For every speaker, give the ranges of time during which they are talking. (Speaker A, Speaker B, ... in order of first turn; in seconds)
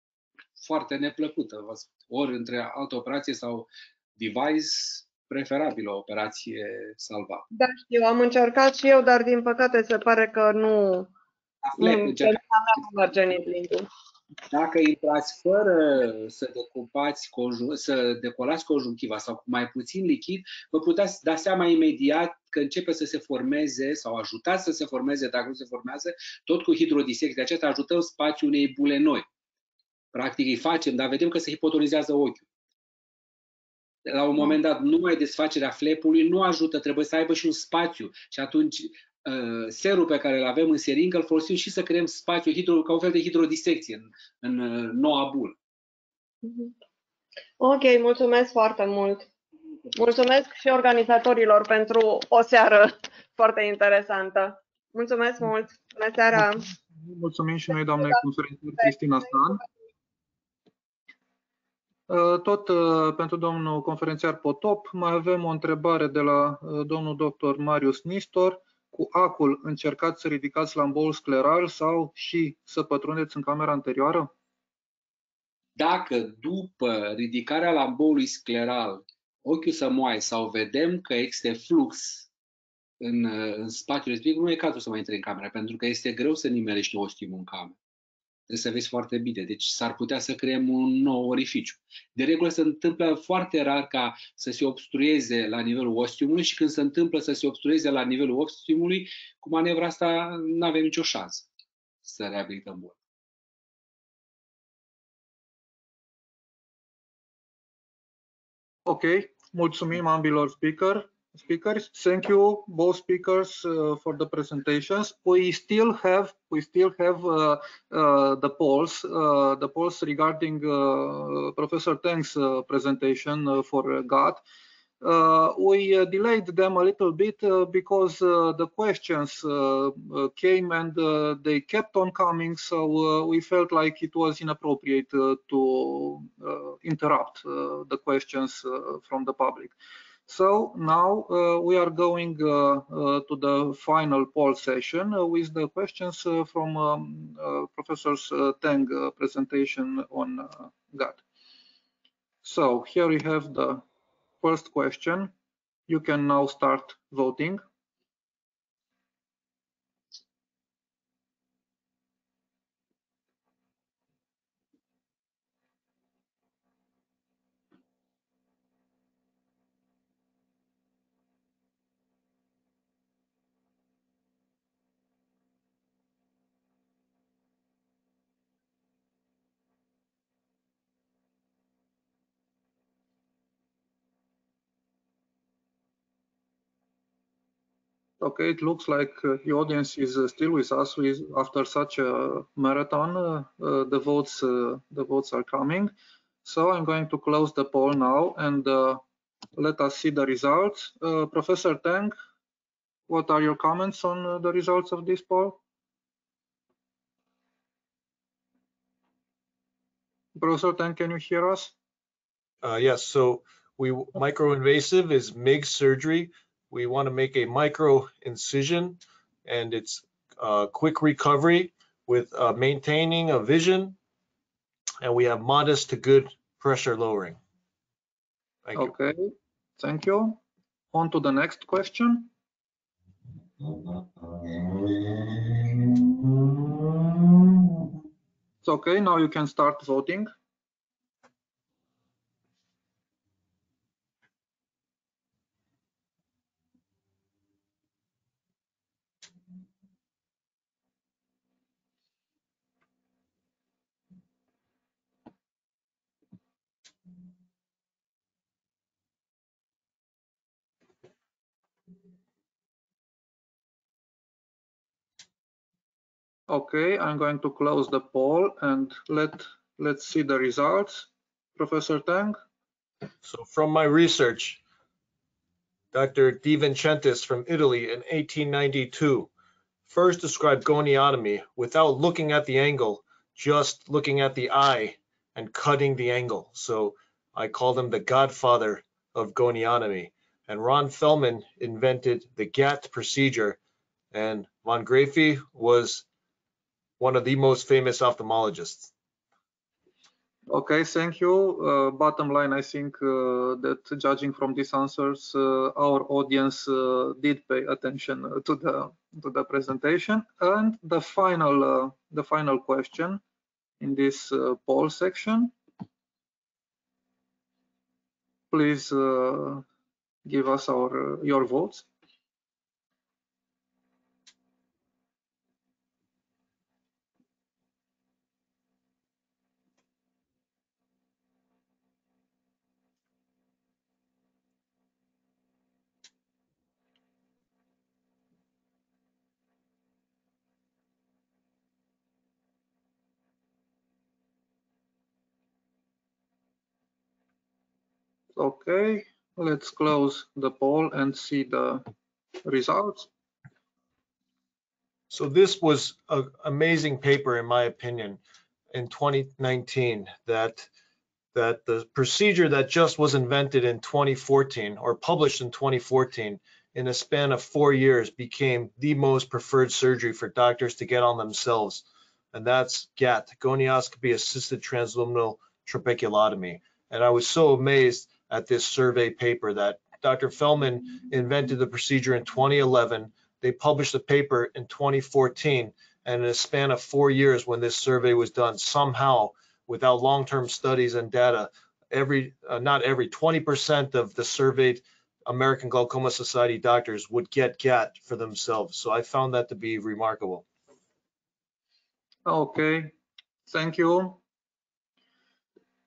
Speaker A: 0.6-7.5, 11.6-12.4, 14.5-29.2, 30.1-32.4, 34.1-45.5, 75.8-82.3, 83.0-87.8, 88.5-101.5, 102.0-103.0
Speaker B: 7.5-11.1, 11.8-13.9, 46.4-46.7, 47.6-49.3, 49.9-56.7
Speaker C: 56.3-59.6, 62.1-74.3, 108.8-124.4, 125.0-139.7, 140.3-151.2, 152.4-153.8, 154.4-155.3, 155.9-157.6, 188.2-195.9, 196.4-199.0, 199.6-202.1, 203.1-205.6, 210.4-211.7, 228.8-230.4, 230.9-232.3, 238.6-240.3, 266.5-272.4, 300.5-313.2, 313.8-315.5, 318.5-319.6, 320.2-321.9, 348.4-351.8, 352.4-353.1, 402.2-402.9, 403.5-404.2
Speaker D: 212.6-223.9, 225.0-227.4, 228.6-228.9, 273.2-274.6, 275.9-279.3, 279.9-293.6, 294.1-296.1, 297.0-298.9, 355.1-358.2, 358.7-360.7, 361.3-400.4